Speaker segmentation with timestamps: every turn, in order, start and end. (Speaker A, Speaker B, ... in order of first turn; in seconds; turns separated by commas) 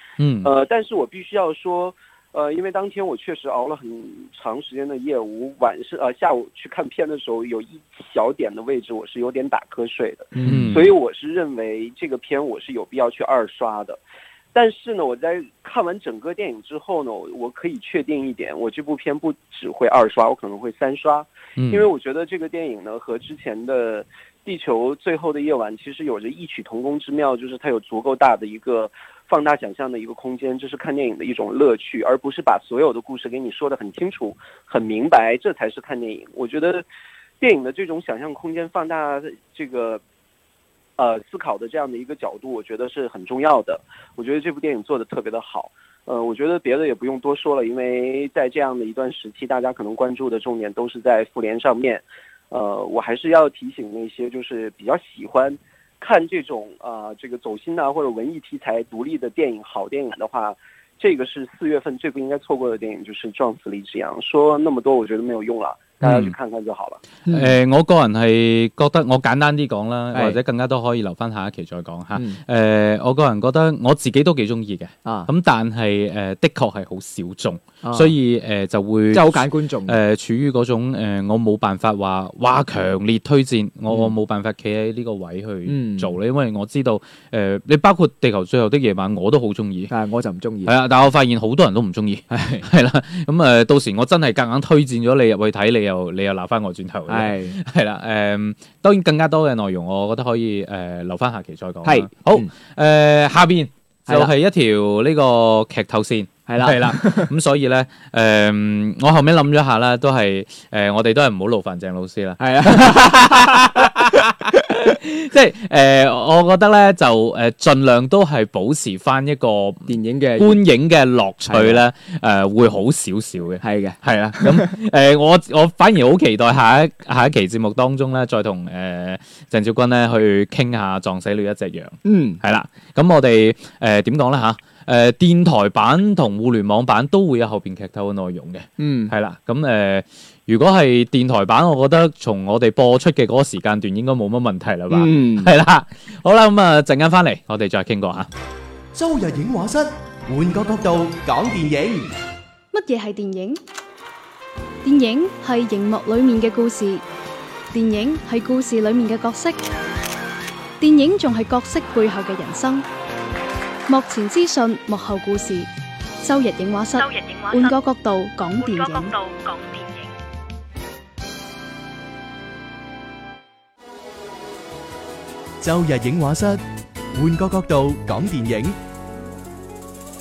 Speaker A: 0.2-0.5, Speaker B: 0.4-14.0, Speaker C: 10.3-10.8, Speaker A: 10.5-10.9, Speaker B: 14.5-36.8, Speaker A: 21.6-21.9, Speaker B: 37.4-40.0, Speaker B: 41.0-67.0, Speaker A: 66.0-66.3, Speaker C: 67.3-67.5, Speaker A: 67.3-89.9, Speaker C: 70.1-70.4, Speaker C: 77.8-78.2, Speaker C: 79.1-80.0, Speaker C: 85.7-86.2, Speaker C: 89.9-90.7, Speaker A: 90.7-148.3, Speaker C: 92.3-92.7, Speaker C: 97.1-97.6, Speaker C: 101.8-102.5, Speaker C: 104.1-104.3, Speaker C: 106.5-107.3, Speaker C: 112.4-114.2, Speaker C: 119.9-120.6, Speaker C: 121.5-121.8, Speaker C: 123.6-124.7, Speaker C: 132.1-132.4, Speaker C: 138.8-139.1, Speaker C: 144.9-145.5, Speaker D: 148.9-152.1, Speaker E: 152.7-153.6, Speaker E: 154.8-157.0, Speaker E: 157.7-159.6, Speaker E: 160.8-162.9, Speaker E: 163.9-169.1, Speaker F: 166.9-167.8, Speaker F: 168.5-170.2, Speaker D: 175.6-176.6, Speaker D: 177.2-178.8